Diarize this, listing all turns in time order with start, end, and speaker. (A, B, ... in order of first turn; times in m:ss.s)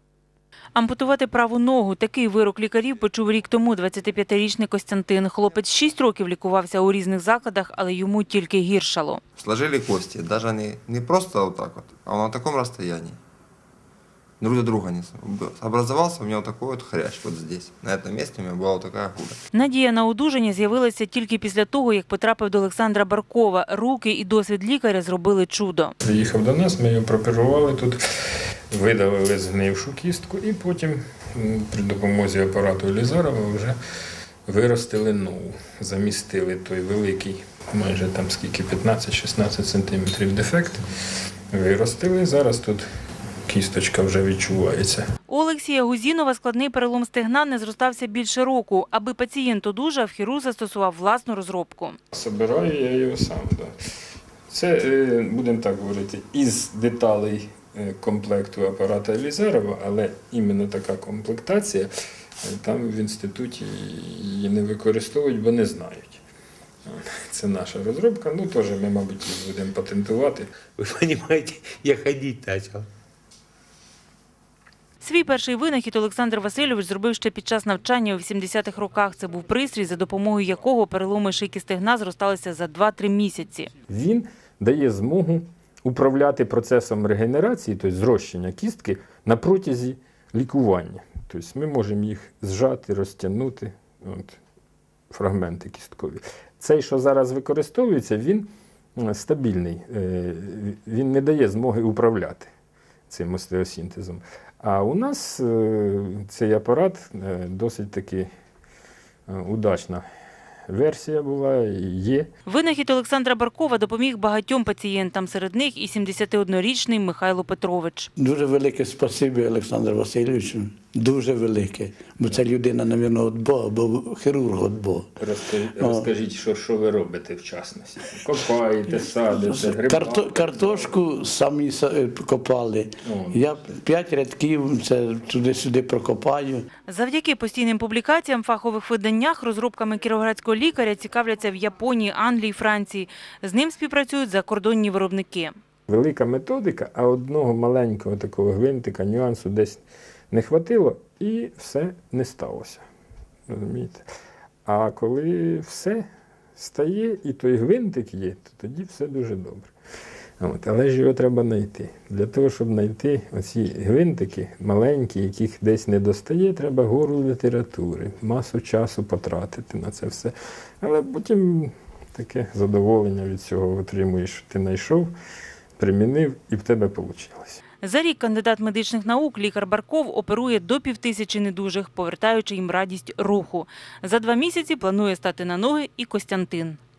0:00.8-0:09.2 A
0:09.4-0:13.2 B
0:14.4-0:19.4 B
0:19.5-0:25.9 A
0:26.0-0:28.0 C
0:28.7-0:33.8 C
0:34.5-0:40.8 C
0:41.5-0:42.9 C
0:43.4-0:45.1 C
0:45.3-0:52.0 A
0:52.1-0:53.7 C
0:54.5-1:01.9 C
1:02.4-1:06.2 C
1:06.9-1:10.5 C
1:10.8-1:12.9 D
1:15.0-1:23.7 A
1:23.9-1:34.4 C
1:35.1-1:42.5 C
1:43.1-1:48.3 C
1:49.3-1:50.0 C
1:50.7-1:52.3 C
1:52.5-1:58.1 A
1:58.2-2:05.1 E
2:05.2-2:10.9 C
2:09.3-2:16.7 E
2:13.0-2:13.5 C
2:16.9-2:25.5 A
2:25.9-2:32.8 C
2:33.5-2:34.1 C
2:34.7-2:36.0 C
2:36.6-2:39.7 C
2:40.4-2:55.1 C
2:55.8-2:57.6 C
2:57.8-3:06.8 A